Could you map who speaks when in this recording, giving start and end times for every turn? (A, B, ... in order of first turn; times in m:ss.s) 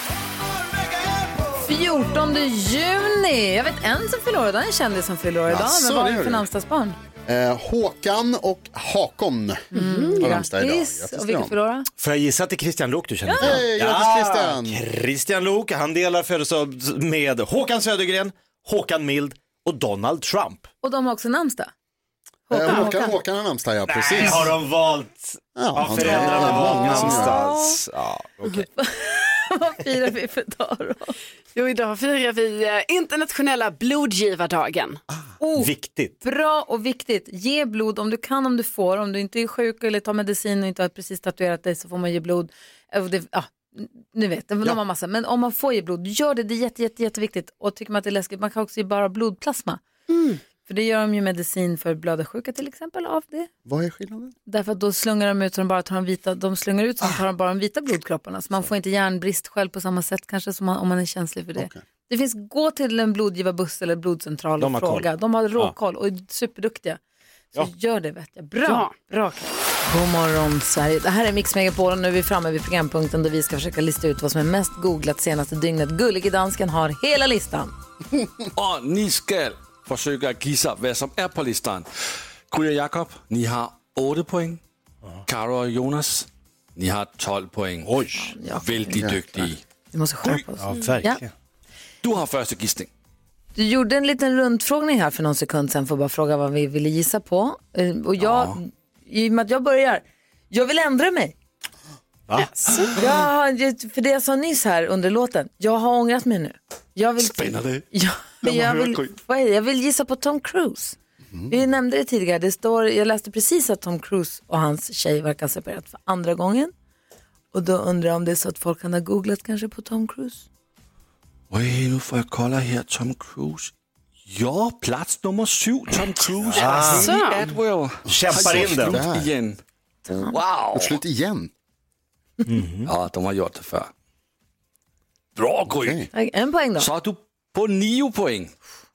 0:01.6-0:07.0 A
0:05.5-0:06.5 B
0:07.2-0:11.6 B
0:09.7-0:11.9 A
0:09.8-0:10.0 C
0:12.0-0:20.7 D
0:13.3-0:13.5 A
0:13.4-0:14.8 B
0:20.8-0:21.7 A
0:22.5-0:23.2 A
0:22.5-0:24.6 B
0:23.9-0:28.7 D
0:25.6-0:27.5 B
0:26.0-0:27.8 A
0:28.8-0:31.2 A
0:31.6-0:35.0 C
0:35.4-0:49.8 A
0:35.6-0:36.1 D
0:50.5-0:53.5 A
0:53.6-0:54.3 B
0:54.5-1:07.0 A
1:01.5-1:01.8 B
1:04.6-1:05.0 D
1:07.5-1:17.7 A
1:08.6-1:08.9 C
1:18.5-1:21.9 E
1:22.5-1:24.6 E
1:25.2-1:28.0 E
1:27.8-1:28.3 D
1:28.1-1:31.2 A
1:28.5-1:29.6 E
1:30.6-1:31.3 D
1:32.0-1:32.9 E
1:33.5-1:41.3 A
1:38.2-1:38.6 E
1:42.3-1:42.7 D
1:42.4-1:42.9 C
1:42.9-1:51.0 A
1:47.2-1:47.8 E
1:48.4-1:49.1 E
1:51.5-1:56.7 A
1:57.5-2:00.4 A
2:01.5-2:03.7 E
2:04.3-2:09.6 E
2:06.5-2:07.2 D
2:06.8-2:07.5 C
2:08.1-2:09.0 D
2:08.1-2:09.3 B
2:10.1-2:10.3 A
2:10.3-2:11.0 E
2:10.7-2:11.5 B
2:12.5-2:12.9 D
2:12.8-2:13.9 E
2:15.4-2:16.1 E
2:15.7-2:16.1 B
2:16.1-2:16.9 A
2:16.8-2:18.5 E